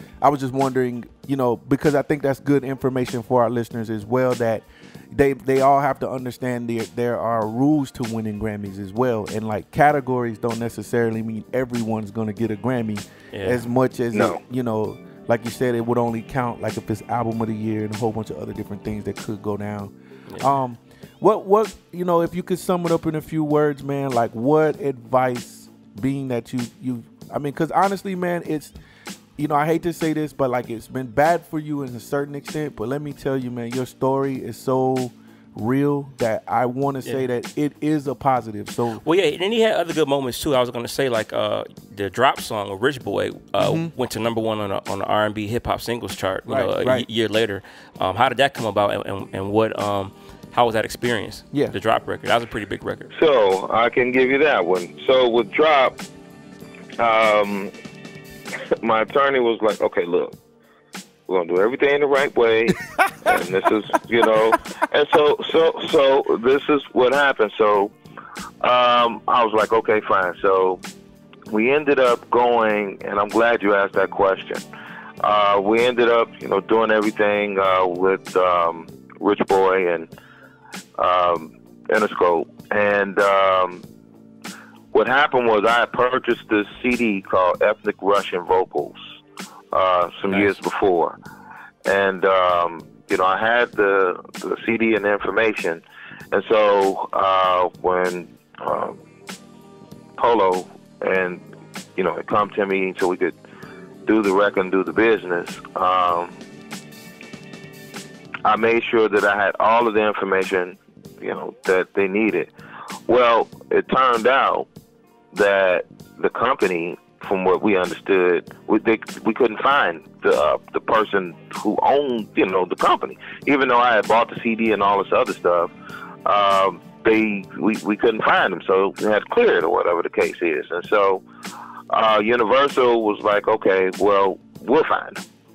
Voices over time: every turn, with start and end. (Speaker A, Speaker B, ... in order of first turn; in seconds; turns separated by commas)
Speaker A: 0.2-28.8, Speaker B: 13.3-13.6, Speaker C: 14.1-14.4, Speaker B: 20.3-20.6, Speaker A: 29.4-39.0, Speaker B: 39.0-53.1, Speaker A: 43.6-43.9, Speaker A: 46.5-47.1, Speaker C: 53.1-56.0, Speaker C: 57.0-57.7, Speaker C: 58.7-60.4, Speaker C: 61.3-67.9, Speaker A: 62.9-63.4, Speaker A: 64.0-64.3, Speaker C: 68.6-70.8, Speaker C: 71.5-74.6, Speaker C: 75.2-80.1, Speaker C: 81.0-83.8, Speaker C: 84.9-89.0, Speaker C: 89.7-91.2, Speaker B: 90.3-90.6, Speaker C: 91.9-99.0, Speaker C: 100.2-101.4, Speaker C: 102.0-103.3, Speaker C: 104.1-106.4, Speaker C: 108.5-112.5, Speaker C: 113.1-114.7, Speaker C: 115.3-125.7, Speaker C: 126.2-131.2, Speaker C: 131.9-135.2